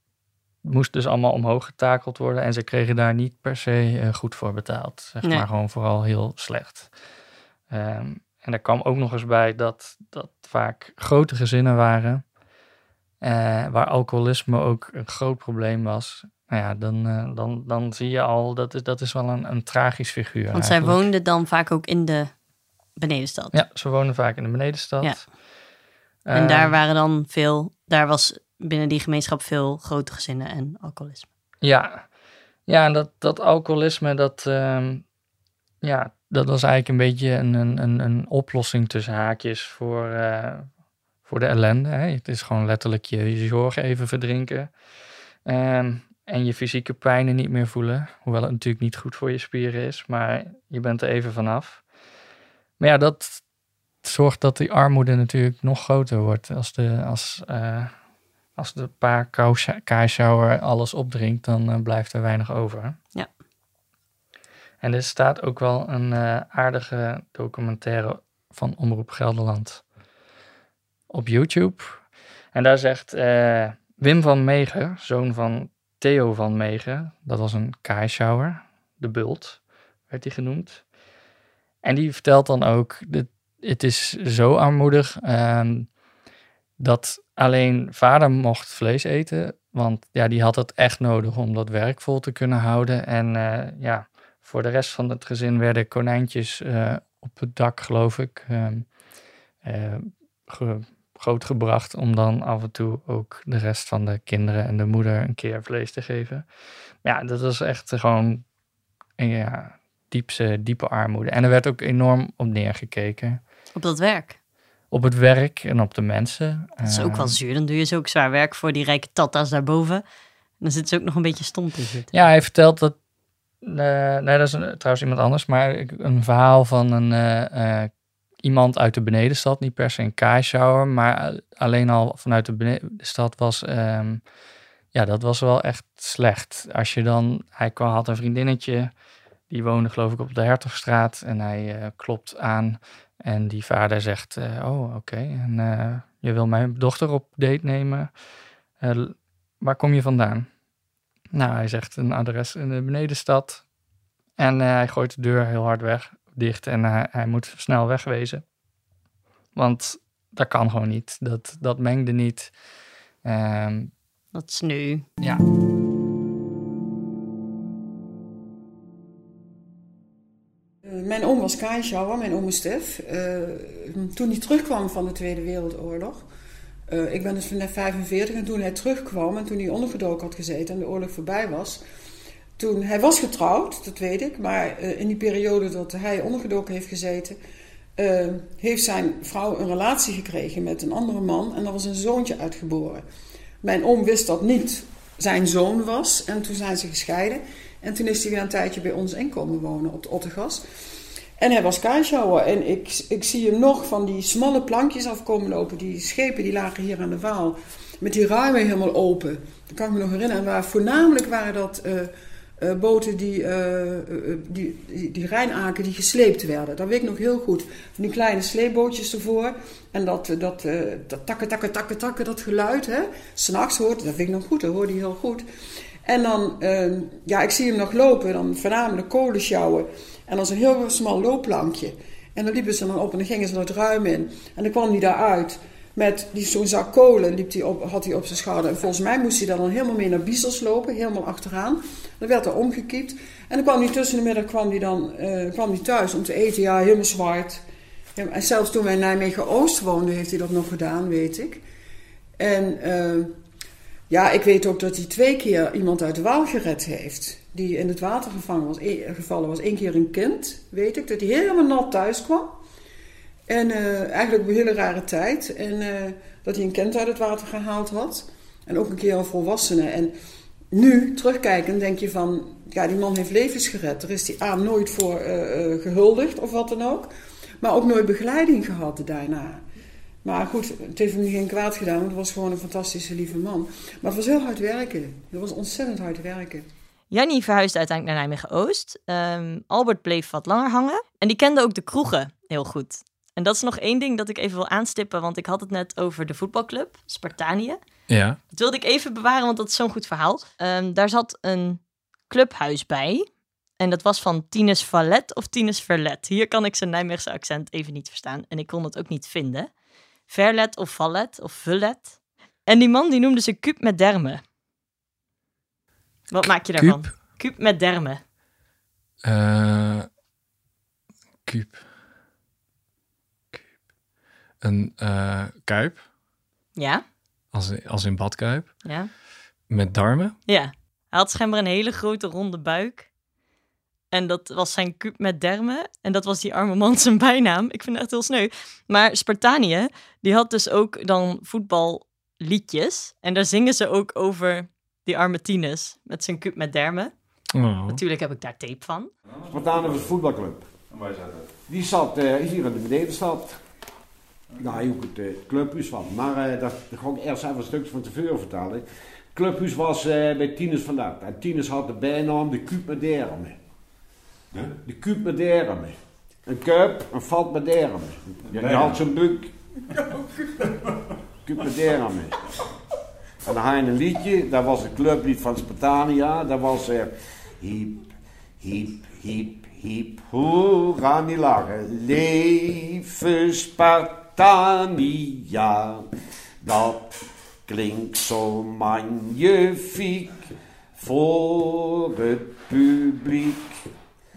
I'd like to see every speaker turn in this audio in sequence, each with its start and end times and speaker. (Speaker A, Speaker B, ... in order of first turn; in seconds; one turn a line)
Speaker A: 0.6-6.9
Speaker A: 7.7-12.2
Speaker A: 13.2-21.0
Speaker B: 20.5-22.3
Speaker B: 22.9-23.6
Speaker A: 23.5-25.3
Speaker A: 26.2-26.7
Speaker B: 26.3-31.3
Speaker A: 31.6-32.1
Speaker A: 32.7-35.0
Speaker A: 35.8-40.7
Speaker A: 41.2-44.7
Speaker A: 45.4-51.8
Speaker A: 52.8-53.4
Speaker A: 54.0-57.9
Speaker A: 58.5-63.0
Speaker A: 64.8-69.8
Speaker A: 71.1-80.8
Speaker A: 81.8-85.9
Speaker A: 86.8-98.9
Speaker A: 99.6-106.5
Speaker A: 107.0-108.4
Speaker A: 109.2-113.4
Speaker B: 113.7-114.4
Speaker A: 114.9-117.3
Speaker B: 116.8-120.0
Speaker B: 120.6-122.1
Speaker A: 122.1-123.0
Speaker A: 123.6-127.9
Speaker A: 128.4-134.2
Speaker A: 134.9-138.9
Speaker A: 139.5-148.1
Speaker A: 148.8-150.5
Speaker A: 151.3-153.7
Speaker A: 154.4-158.4
Speaker A: 159.6-162.5
Speaker A: 163.2-163.9
Speaker B: 164.3-165.0
Speaker C: 170.8-176.2
Speaker C: 176.9-181.8
Speaker C: 182.6-187.4
Speaker C: 188.0-193.0
Speaker C: 193.6-200.6
Speaker C: 201.4-225.4
Speaker C: 226.0-247.6
Speaker C: 248.2-251.6
Speaker C: 252.4-253.3
Speaker C: 254.1-262.5
Speaker C: 263.5-270.1
Speaker C: 270.7-277.1
Speaker C: 277.6-279.6
Speaker C: 280.2-286.7
Speaker B: 287.1-297.8
Speaker D: 298.1-298.4
Speaker B: 298.5-303.2
Speaker B: 303.8-309.7
Speaker B: 310.3-314.4
Speaker B: 316.3-318.2
Speaker D: 316.8-317.1
Speaker D: 319.2-320.1
Speaker D: 321.4-321.8
Speaker D: 324.6-326.0
Speaker B: 326.8-327.0
Speaker D: 327.5-328.8
Speaker D: 329.7-330.4
Speaker B: 330.5-333.1
Speaker B: 334.1-347.1
Speaker D: 347.5-348.0
Speaker B: 347.9-349.1
Speaker E: 349.3-350.1
Speaker F: 349.5-350.7
Speaker E: 350.9-351.5
Speaker F: 351.7-353.6
Speaker F: 354.6-363.6
Speaker F: 364.7-369.5
Speaker E: 368.5-369.0
Speaker E: 370.1-370.9
Speaker F: 371.4-372.4
Speaker F: 373.4-386.1
Speaker F: 386.6-393.9